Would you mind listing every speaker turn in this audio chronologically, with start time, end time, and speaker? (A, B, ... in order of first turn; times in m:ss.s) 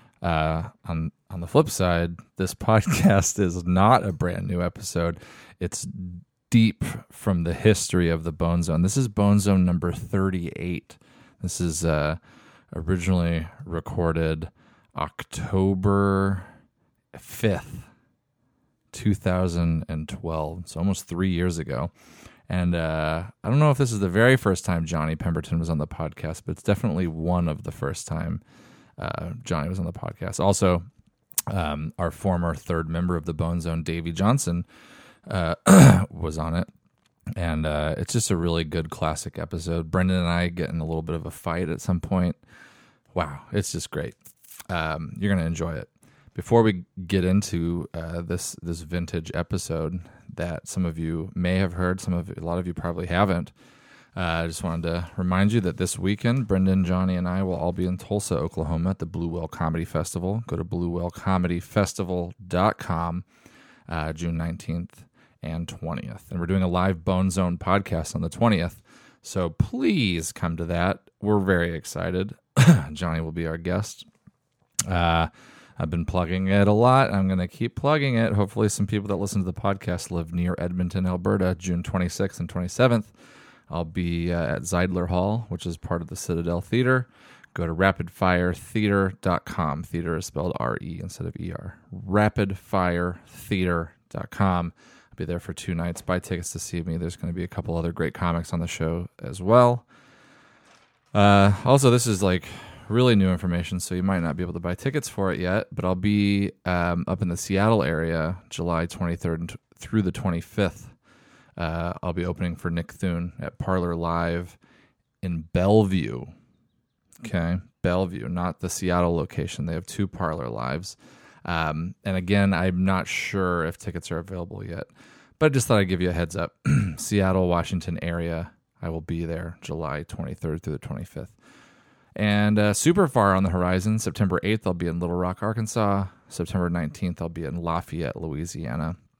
0:00.2-0:12.2 A
0:12.7-0:16.5 A
0:17.1-0:17.9 A
0:18.9-0:21.9 A
0:22.5-0:28.4 A
0:29.0-0:30.9 A
0:31.5-0:34.7 A
0:35.3-0:36.7 A
0:37.4-0:42.4 A
0:43.1-0:44.2 A
0:44.7-0:53.5 A
0:54.2-1:03.2 A
1:03.9-1:14.1 A
1:14.8-1:23.1 A
1:23.7-1:39.8 A
1:41.1-1:50.9 A
1:51.6-1:54.6 A
1:55.2-1:56.3 A
1:57.2-2:04.9 A
2:05.4-2:11.3 A
2:12.2-2:19.0 A